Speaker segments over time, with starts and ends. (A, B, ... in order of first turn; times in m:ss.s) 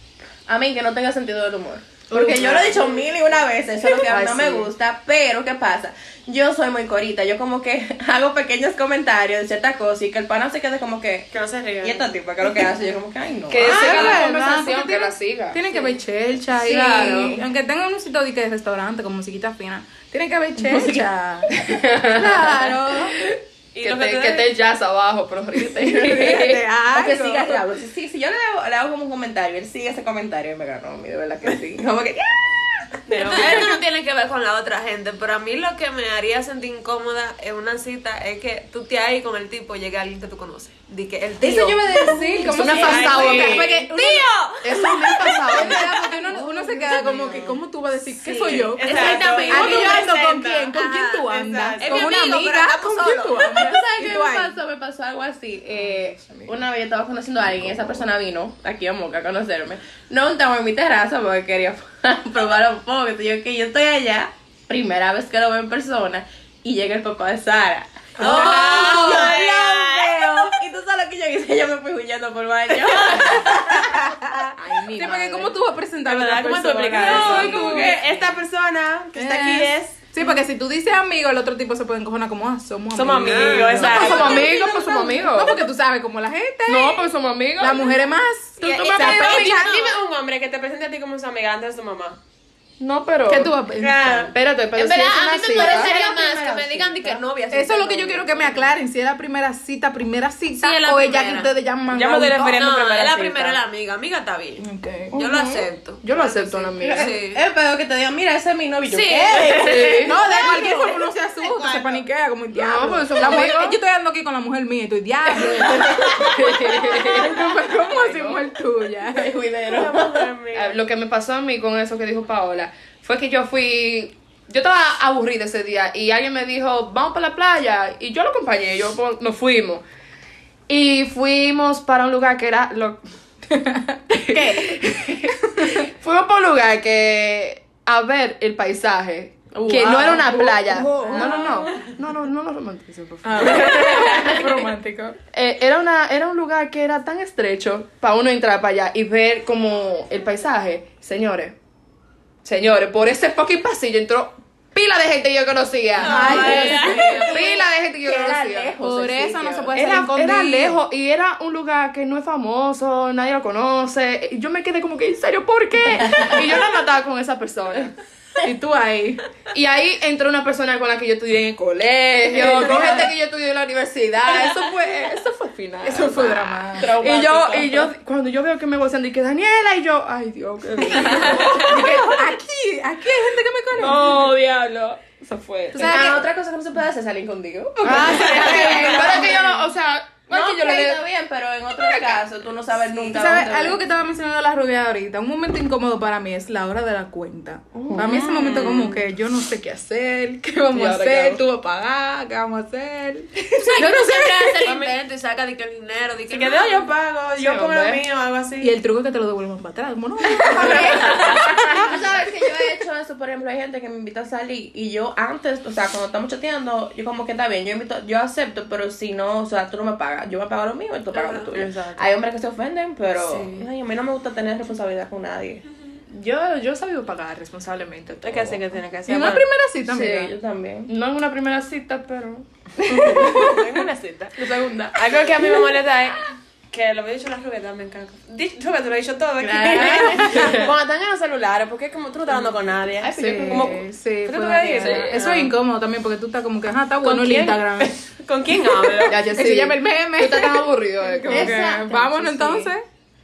0:00.5-0:14.2 A
0:02.1-0:03.2 B
0:02.3-0:02.6 C
0:03.9-0:04.7 C
0:11.3-0:12.1 B
0:13.5-0:15.6 C
0:13.6-0:21.6 D
0:16.6-0:17.4 C
0:16.6-0:17.4 A
0:20.6-0:21.0 A
0:21.5-0:26.6 C
0:22.1-0:23.2 D
0:23.8-0:24.5 B
0:25.8-0:27.6 D
0:26.0-0:33.6 A
0:33.1-0:33.7 B
0:33.2-0:46.5 E
0:41.4-0:44.3 D
0:42.5-0:43.8 C
0:42.6-0:43.8 B
0:44.6-0:45.9 C
0:45.5-0:54.6 D
0:47.2-0:47.5 B
0:48.3-0:50.2 E
0:48.4-0:50.7 B
0:48.8-0:50.0 A
0:50.7-0:53.7 E
0:51.3-0:52.2 B
0:53.4-1:14.1 A
0:55.7-0:56.6 C
0:57.6-0:58.0 C
1:08.2-1:09.8 E
1:08.2-1:10.1 B
1:14.6-1:15.6 C
1:14.9-1:18.0 D
1:16.0-1:20.0 B
1:17.0-1:17.8 E
1:17.1-1:18.3 A
1:19.1-1:29.9 D
1:22.9-1:24.5 B
1:23.2-1:24.5 E
1:23.8-1:25.6 C
1:26.7-1:27.9 C
1:28.6-1:32.2 B
1:28.6-1:30.0 E
1:32.8-1:33.6 C
1:33.3-1:34.2 D
1:33.8-1:34.3 B
1:33.8-1:38.7 E
1:34.3-1:35.9 C
1:35.0-1:37.2 A
1:37.5-1:42.6 D
1:40.6-1:41.5 E
1:41.9-1:43.6 B
1:42.6-1:47.4 E
1:44.6-1:45.2 D
1:45.1-1:47.1 C
1:46.8-1:51.0 A
1:48.9-1:49.9 E
1:49.5-1:50.2 C
1:50.0-1:59.3 D
1:52.5-1:53.8 C
1:56.0-1:58.5 C
1:59.1-2:00.3 A
1:59.6-2:00.8 B
2:00.5-2:09.8 C
2:10.7-2:13.0 C
2:13.6-2:14.5 D
2:14.1-2:24.6 C
2:15.6-2:15.8 D
2:19.6-2:20.4 A
2:19.7-2:21.8 D
2:21.0-2:21.5 A
2:23.2-2:25.2 D
2:25.3-2:31.6 C
2:32.4-2:38.8 C
2:36.0-2:39.7 A
2:36.0-2:37.3 E
2:36.0-2:37.2 D
2:38.8-2:40.8 D
2:39.7-2:47.9 C
2:46.0-2:46.4 A
2:48.4-2:49.2 D
2:49.5-3:02.2 C
2:52.4-2:53.1 A
2:55.8-2:56.9 D
2:56.8-2:57.9 A
2:57.0-2:57.4 B
3:01.2-3:01.5 B
3:01.3-3:04.3 D
3:01.6-3:02.0 A
3:03.8-3:06.2 C
3:05.7-3:06.2 D
3:05.8-3:09.6 A
3:07.8-3:11.0 C
3:07.8-3:09.4 D
3:08.1-3:09.1 B
3:10.3-3:13.8 A
3:11.8-3:12.2 C
3:13.1-3:24.2 D
3:17.7-3:18.3 C
3:18.0-3:19.0 B
3:20.7-3:21.4 C
3:23.6-3:26.9 E
3:24.6-3:25.0 B
3:26.3-3:28.7 B
3:27.4-3:28.0 C
3:28.6-3:31.9 D
3:30.4-3:45.6 A
3:31.0-3:31.5 B
3:41.2-3:41.4 E
3:41.4-3:42.1 B
3:43.3-3:43.7 B
3:46.1-3:48.6 C
3:48.2-3:49.5 B
3:49.1-3:50.3 D
3:49.9-3:50.9 A
3:50.9-3:53.7 C
3:52.9-3:53.6 D
3:53.0-4:05.5 B
3:54.4-3:55.8 C
3:59.4-4:00.7 A
4:00.2-4:00.7 C
4:03.0-4:03.8 A
4:03.2-4:08.0 D
4:04.7-4:05.0 A
4:07.0-4:09.2 B
4:09.0-4:12.7 C
4:09.3-4:12.8 D
4:11.3-4:12.7 A